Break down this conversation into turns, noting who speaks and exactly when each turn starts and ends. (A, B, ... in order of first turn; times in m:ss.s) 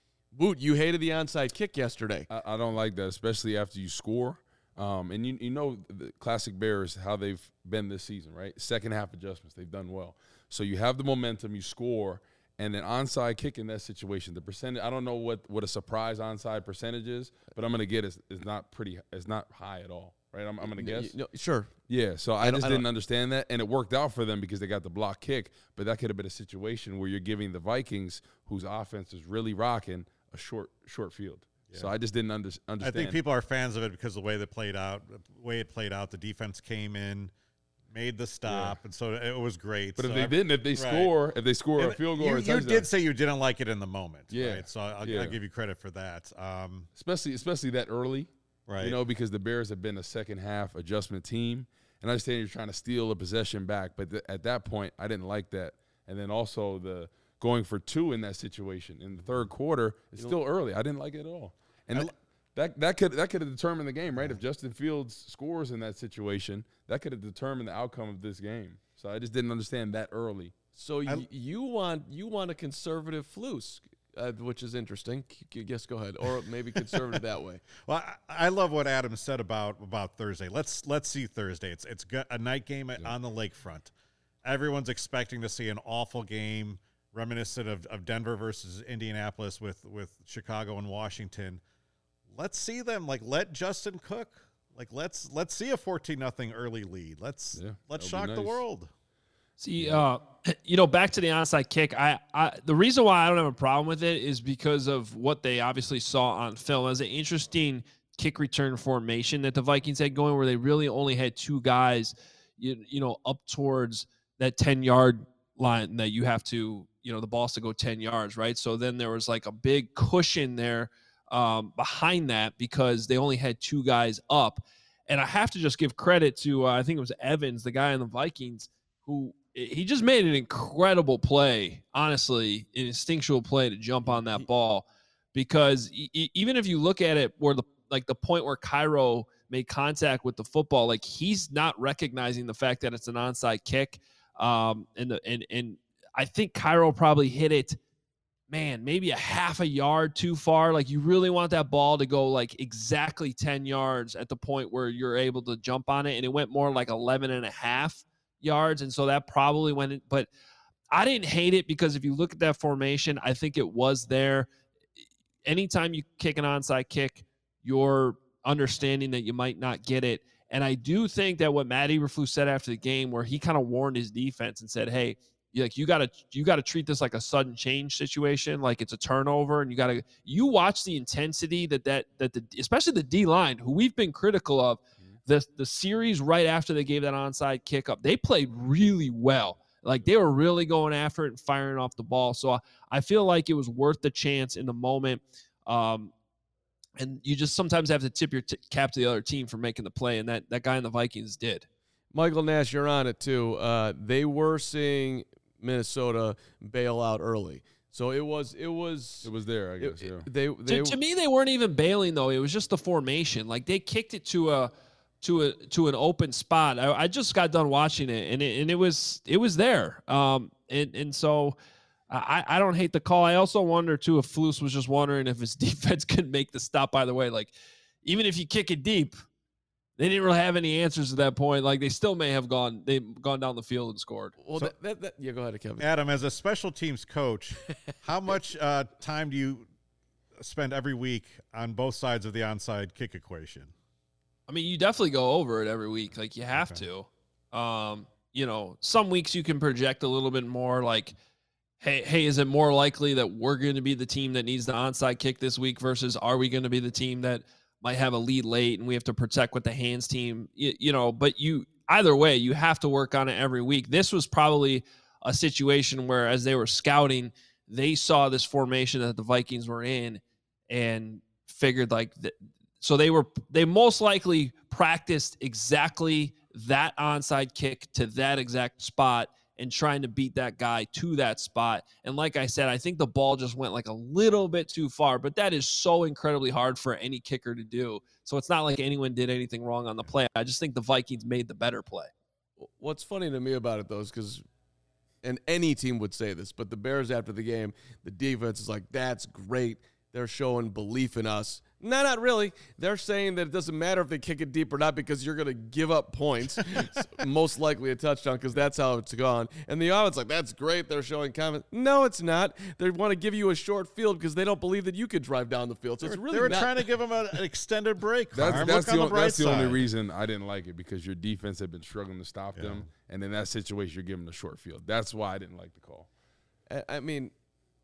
0:00.3-0:02.3 A
0:02.3-0:21.1 B
0:20.6-0:21.7 A
0:21.9-0:33.2 B
0:22.4-0:22.8 A
0:32.8-0:37.3 C
0:37.9-0:41.1 C
0:38.5-0:38.8 B
0:40.0-0:42.9 B
0:41.8-0:46.9 C
0:44.3-0:45.4 B
0:47.0-0:48.3 B
0:48.7-0:49.0 C
0:48.8-1:10.6 B
1:10.8-1:17.6 A
1:17.8-1:23.9 C
1:24.4-1:31.6 C
1:32.3-1:38.9 C
1:37.5-1:38.6 B
1:39.6-2:27.8 D
1:39.8-1:40.0 B
2:28.5-2:40.3 D
2:40.9-2:44.5 D
2:45.4-3:16.1 D
3:17.0-3:21.7 D
3:22.1-3:31.0 A
3:29.2-3:30.3 B
3:30.7-3:41.6 D
3:42.1-3:47.5 D
3:48.0-3:49.2 D
3:50.0-3:54.4 D
3:54.4-3:55.9 A
3:55.8-3:59.7 C
4:00.4-4:03.7 C
4:04.5-4:11.2 D
4:06.5-4:06.9 C
4:11.8-4:52.1 D
4:52.6-4:54.4 A
4:55.2-5:16.8 A
5:16.0-5:19.8 C
5:18.3-5:26.1 B
5:22.6-5:22.9 C
5:26.7-5:27.3 A